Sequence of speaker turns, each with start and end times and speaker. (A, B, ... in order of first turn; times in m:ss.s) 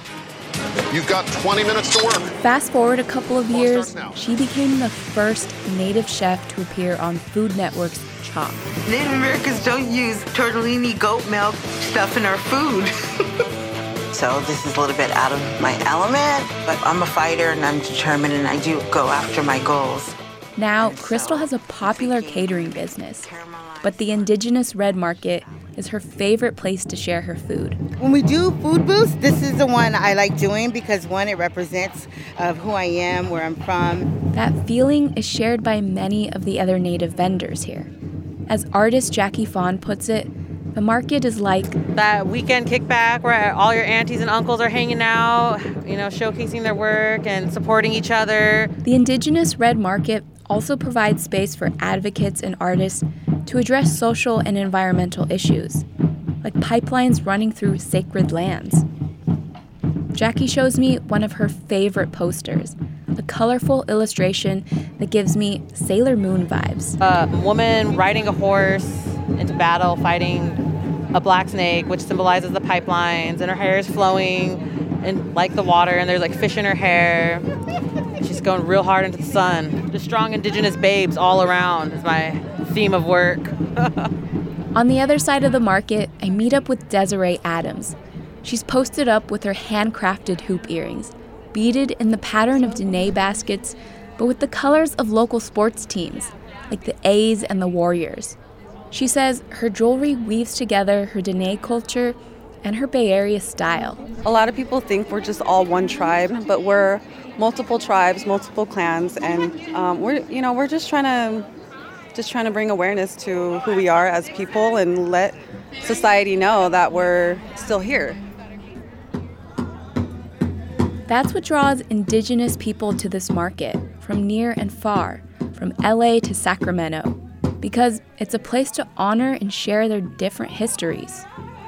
0:00.9-0:02.3 A
0:02.4-0:08.7 B
0:03.5-0:04.1 A
0:08.8-0:12.9 C
0:14.1-0:20.1 C
0:20.6-0:27.8 B
0:20.8-0:24.2 C
0:28.0-0:34.1 C
0:34.3-0:37.9 B
0:38.5-0:41.8 B
0:41.9-0:48.7 D
0:48.8-0:55.8 B
0:56.4-0:58.8 B
1:00.1-1:07.0 B
1:07.0-1:10.6 D
1:11.1-1:17.4 D
1:18.2-1:24.0 D
1:24.7-1:38.4 B
1:38.9-1:44.0 B
1:44.2-1:51.5 E
1:52.1-1:58.2 E
2:01.1-2:11.2 B